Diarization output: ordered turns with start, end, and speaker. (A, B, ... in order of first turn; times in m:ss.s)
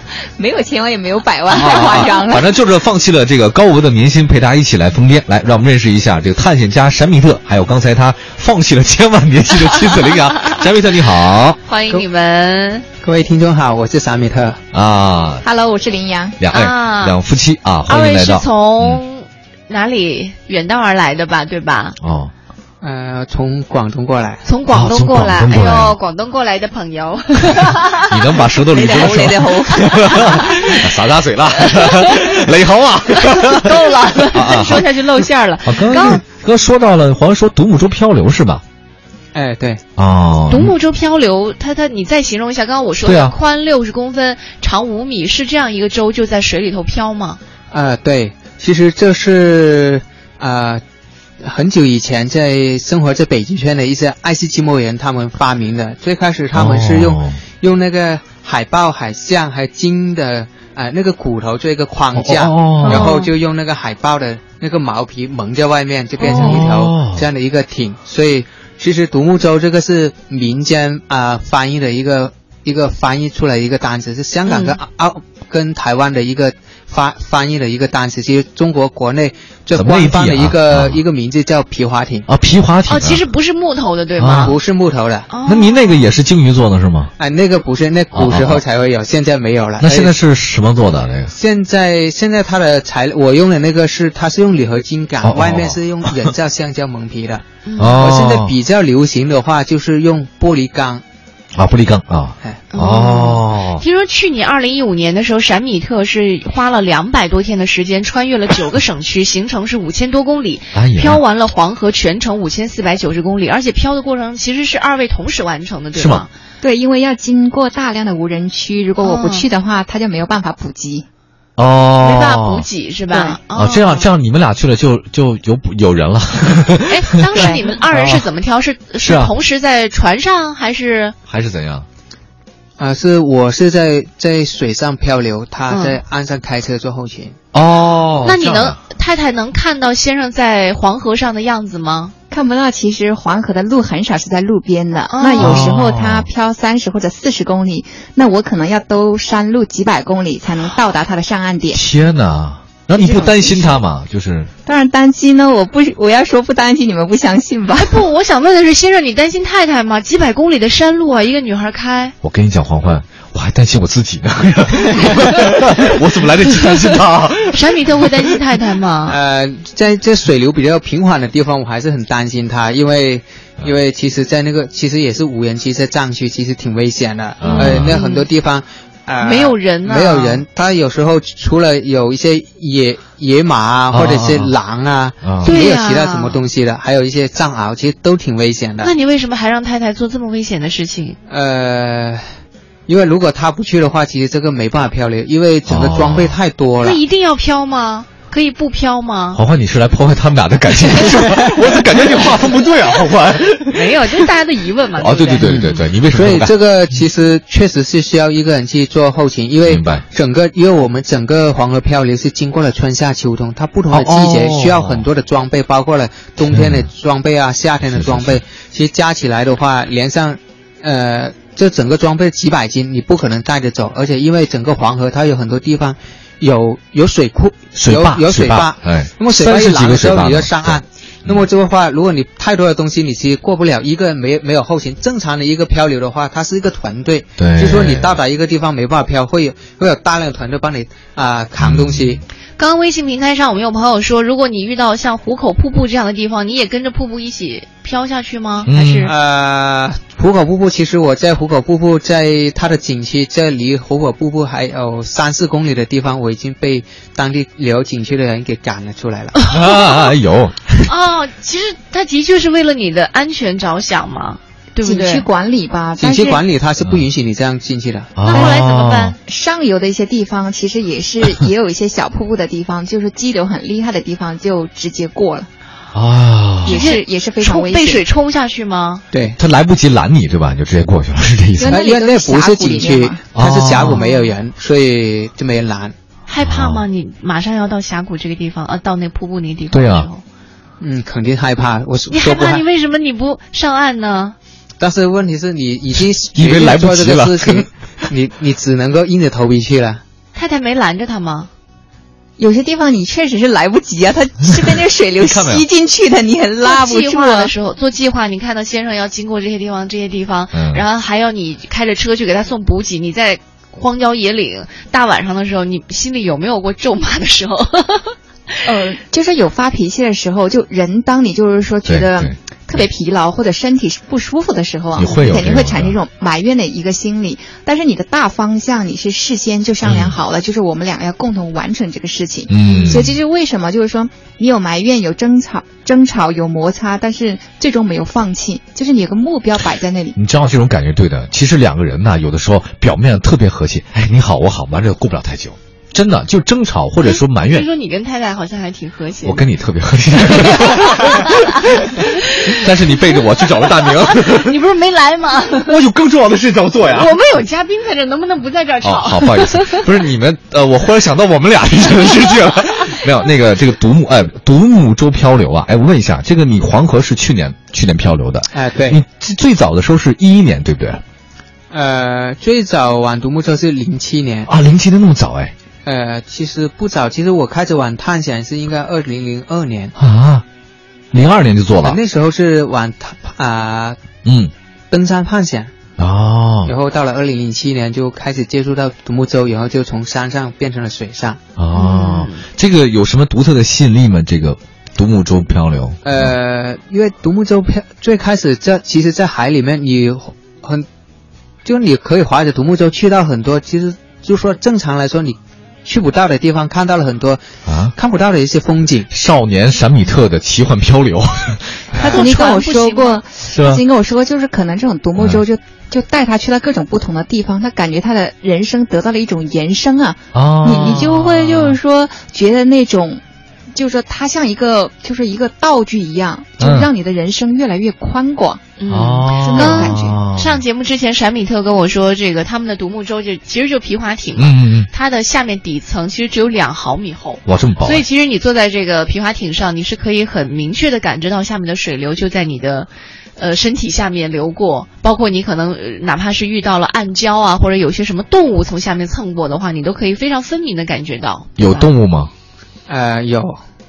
0:00.4-0:02.5 A
0:01.5-0:02.0 B
0:01.5-0:11.6 C
0:09.9-0:10.6 B
0:11.6-0:12.8 B
0:13.0-0:14.6 D
0:14.7-0:15.4 C
0:15.4-0:16.4 A
0:16.4-0:19.0 C
0:16.5-0:17.2 B
0:17.9-0:22.0 B
0:22.0-0:22.3 C
0:22.8-0:24.4 D
0:24.4-0:28.4 B
0:24.7-0:26.0 C
0:28.0-0:35.0 C
0:28.7-0:30.6 A
0:29.9-0:30.8 B
0:31.7-0:32.4 B
0:33.1-0:36.2 B
0:35.6-0:38.6 C
0:35.9-0:36.2 A
0:39.3-0:39.8 D
0:40.0-0:40.7 C
0:40.5-0:47.4 B
0:43.0-0:43.3 C
0:47.7-0:50.8 D
0:51.4-1:22.3 D
0:56.5-0:57.4 C
1:02.2-1:03.1 C
1:02.8-1:03.3 B
1:06.3-1:07.2 C
1:14.4-1:14.8 B
1:19.8-1:21.0 C
1:22.3-1:23.2 C
1:22.9-1:24.6 B
1:24.2-1:24.5 C
1:24.4-1:25.3 D
1:25.3-1:26.1 B
1:25.4-1:27.1 C
1:27.2-1:30.1 D
1:28.1-1:28.6 C
1:29.8-1:31.3 C
1:31.3-1:41.0 D
1:35.2-1:36.3 C
1:37.6-1:38.0 B
1:37.8-1:38.5 C
1:41.5-1:43.8 C
1:42.7-1:56.3 B
1:50.7-1:51.2 C
1:55.9-1:56.2 C
1:56.6-2:01.0 A
1:59.0-1:59.4 B
2:01.6-2:02.7 C
2:02.0-2:04.1 B
2:03.1-2:03.4 A
2:03.5-2:08.3 C
2:06.9-2:11.2 B
2:07.3-2:07.7 A
2:09.0-2:09.3 C
2:11.3-2:11.9 C
2:12.8-2:17.4 D
2:15.7-2:16.0 B
2:17.5-2:18.8 C
2:18.2-2:22.1 B
2:22.3-2:31.8 A
2:25.1-2:25.7 B
2:25.4-2:26.3 C
2:31.7-2:34.5 C
2:33.0-2:33.8 A
2:34.6-2:38.0 A
2:37.7-2:42.1 B
2:42.2-2:48.1 C
2:47.5-2:49.2 B
2:49.1-3:08.9 D
2:57.4-2:58.0 C
2:57.4-2:58.3 B
2:59.2-3:00.4 B
3:03.9-3:04.5 C
3:05.2-3:05.6 C
3:05.4-3:06.4 B
3:08.8-3:11.2 B
3:11.3-3:12.3 D
3:12.9-3:17.0 D
3:15.7-3:16.3 C
3:16.8-3:19.4 B
3:19.3-3:24.3 C
3:23.7-3:25.8 B
3:25.0-3:26.5 C
3:25.4-4:02.2 D
3:29.7-3:30.0 C
3:33.9-3:35.0 C
3:36.5-3:36.9 C
3:37.8-3:38.4 C
3:47.8-3:51.5 C
3:57.4-3:58.2 C
4:01.6-4:02.2 C
4:02.6-4:09.1 B
4:08.7-4:09.1 C
4:09.0-4:19.4 D
4:19.4-4:20.8 C
4:20.8-4:25.2 B
4:24.8-4:26.4 A
4:26.0-4:28.1 D
4:28.2-4:29.2 C
4:28.2-4:29.2 B
4:28.3-4:28.6 A
4:29.2-4:35.5 A
4:35.9-4:36.9 C
4:36.6-4:38.0 A
4:36.7-4:39.0 B
4:39.1-4:39.4 D
4:39.4-4:41.8 C
4:41.6-4:43.2 A
4:41.7-4:45.9 D
4:43.3-4:44.0 C
4:43.8-4:44.3 B
4:46.3-4:50.2 B
4:46.4-4:46.8 C
4:49.7-4:50.1 C
4:50.8-4:52.6 D
4:52.1-4:54.4 B
4:54.8-5:00.0 D
4:56.3-4:57.6 C
5:00.3-5:01.5 B
5:02.4-5:07.5 A
5:05.2-5:05.6 C
5:06.6-5:18.6 B
5:10.5-5:10.8 C
5:18.6-5:40.2 A
5:21.9-5:22.3 C
5:25.0-5:25.9 C
5:29.8-5:30.1 C
5:32.5-5:33.1 C
5:32.6-5:33.1 B
5:40.2-5:47.7 C
5:47.0-5:49.4 B
5:49.2-5:54.6 C
5:50.4-5:55.8 B
5:55.6-5:57.1 C
5:56.9-5:59.8 B
5:58.8-6:11.0 C
6:08.5-6:09.0 D
6:11.7-6:14.5 D
6:14.5-6:15.5 C
6:15.8-6:19.9 D
6:20.0-6:20.4 C
6:21.1-6:22.0 C
6:21.8-6:24.0 D
6:24.2-6:24.5 C
6:24.9-6:25.7 D
6:26.0-6:26.7 C
6:26.6-6:31.4 D
6:31.6-6:36.3 C
6:31.7-6:32.4 B
6:36.0-6:40.8 D
6:41.6-6:49.1 D
6:47.6-6:47.9 C
6:49.1-6:52.0 C
6:51.9-6:52.3 D
6:52.0-6:53.2 B
6:52.0-7:08.7 A
6:53.5-6:53.8 C
7:00.3-7:01.8 C
7:00.7-7:01.0 B
7:06.6-7:06.9 C
7:08.8-7:31.9 B
7:08.9-7:10.6 C
7:09.3-7:10.2 A
7:14.4-7:14.9 C
7:17.4-7:18.0 C
7:31.6-7:32.3 C
7:32.9-7:33.6 D